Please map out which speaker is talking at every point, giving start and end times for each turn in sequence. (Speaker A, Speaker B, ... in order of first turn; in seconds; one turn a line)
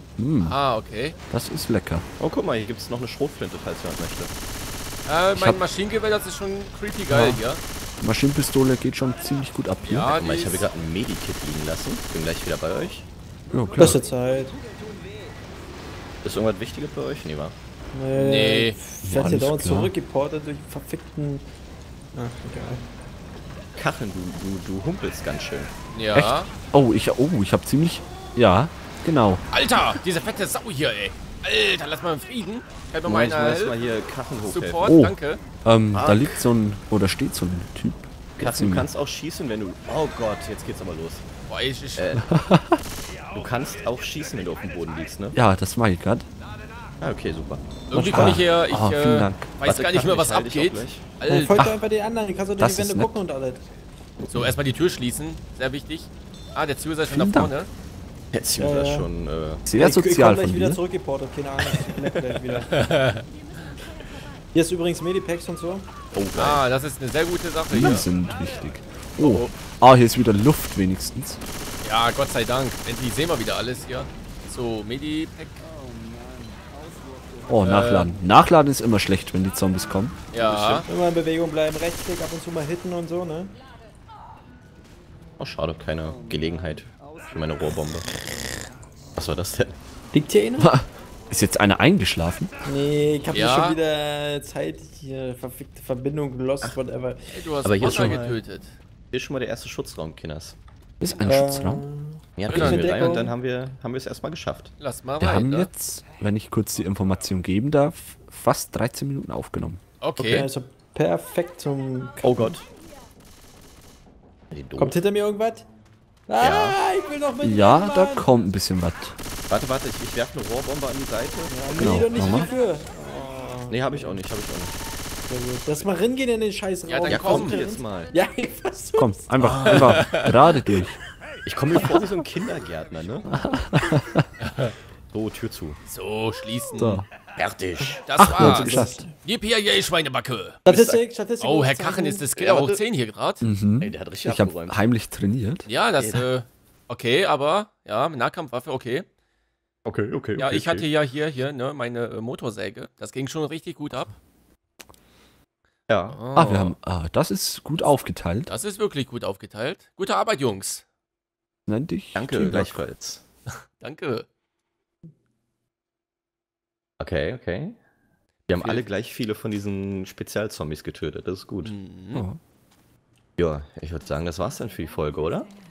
Speaker A: 0.2-0.6
Speaker B: 0.4-1.1
Speaker A: 1.3-2.0
Speaker C: 2.2-4.3
Speaker B: 5.0-7.6
Speaker A: 5.3-5.6
Speaker A: 7.1-7.4
Speaker A: 8.0-10.1
Speaker B: 9.8-10.7
Speaker C: 10.1-13.1
Speaker A: 13.5-14.0
Speaker D: 13.8-14.6
Speaker C: 16.2-17.6
Speaker D: 17.9-21.4
Speaker B: 18.1-18.8
Speaker A: 19.0-19.9
Speaker D: 22.1-22.8
Speaker C: 23.7-25.7
Speaker B: 25.9-26.5
Speaker A: 26.1-29.4
Speaker B: 29.5-33.8
Speaker C: 33.0-34.9
Speaker B: 34.4-35.4
Speaker A: 34.8-38.9
Speaker C: 35.9-36.4
Speaker C: 38.4-41.2
Speaker B: 41.5-42.1
Speaker C: 42.0-42.3
Speaker A: 42.2-42.8
Speaker C: 43.3-45.4
Speaker A: 45.3-46.3
Speaker C: 47.0-47.7
Speaker B: 47.9-51.7
Speaker D: 47.9-48.4
Speaker A: 48.1-49.5
Speaker C: 49.6-51.1
Speaker D: 51.3-53.6
Speaker A: 51.5-51.8
Speaker A: 52.6-53.2
Speaker B: 54.3-57.7
Speaker A: 57.1-57.5
Speaker C: 58.3-59.6
Speaker D: 58.6-59.1
Speaker A: 59.6-60.8
Speaker D: 59.7-62.7
Speaker B: 62.7-63.2
Speaker D: 64.5-65.9
Speaker C: 66.1-66.6
Speaker B: 66.3-68.1
Speaker A: 67.7-71.4
Speaker B: 69.2-69.5
Speaker B: 71.8-75.6
Speaker A: 77.5-80.2
Speaker B: 77.6-78.1
Speaker B: 80.3-80.9
Speaker C: 80.3-80.9
Speaker D: 80.9-83.5
Speaker C: 85.4-88.1
Speaker C: 89.2-89.8
Speaker D: 90.1-90.7
Speaker A: 90.6-92.5
Speaker D: 92.6-97.4
Speaker B: 93.3-93.8
Speaker B: 97.3-98.7
Speaker C: 97.6-98.4
Speaker A: 97.9-98.2
Speaker C: 99.1-100.6
Speaker A: 101.0-101.8
Speaker D: 101.2-103.3
Speaker C: 102.4-104.7
Speaker B: 102.5-103.2
Speaker B: 104.8-105.7
Speaker A: 105.2-109.8
Speaker B: 110.0-110.5
Speaker C: 110.2-110.5
Speaker D: 110.3-112.6
Speaker C: 112.2-112.7
Speaker C: 114.5-115.0
Speaker D: 114.8-115.6
Speaker D: 116.3-118.3
Speaker C: 116.4-116.8
Speaker A: 117.4-119.2
Speaker C: 119.5-122.5
Speaker D: 121.5-124.2
Speaker A: 121.8-122.5
Speaker C: 123.7-124.8
Speaker D: 125.3-129.7
Speaker B: 126.8-127.6
Speaker C: 127.1-128.1
Speaker A: 129.0-131.0
Speaker B: 129.6-130.4
Speaker C: 131.4-133.5
Speaker A: 133.3-134.2
Speaker B: 134.4-134.7
Speaker C: 135.1-135.8
Speaker B: 135.8-137.0
Speaker A: 136.7-137.0
Speaker C: 137.4-138.0
Speaker D: 137.9-139.1
Speaker B: 138.0-140.6
Speaker A: 138.2-139.0
Speaker D: 140.6-142.2
Speaker C: 140.7-141.0
Speaker B: 141.4-143.4
Speaker C: 142.3-142.8
Speaker A: 143.4-145.7
Speaker C: 143.8-144.8
Speaker B: 145.7-149.1
Speaker C: 146.0-146.2
Speaker C: 149.8-150.9
Speaker B: 150.4-154.1
Speaker C: 155.9-156.7
Speaker B: 156.1-156.7
Speaker A: 156.3-158.5
Speaker B: 158.5-160.8
Speaker A: 161.7-162.8
Speaker C: 162.1-163.2
Speaker B: 163.8-164.2
Speaker C: 167.0-167.8
Speaker B: 168.5-168.8
Speaker C: 168.5-171.7
Speaker B: 171.6-172.2
Speaker A: 172.1-172.4
Speaker C: 173.4-175.5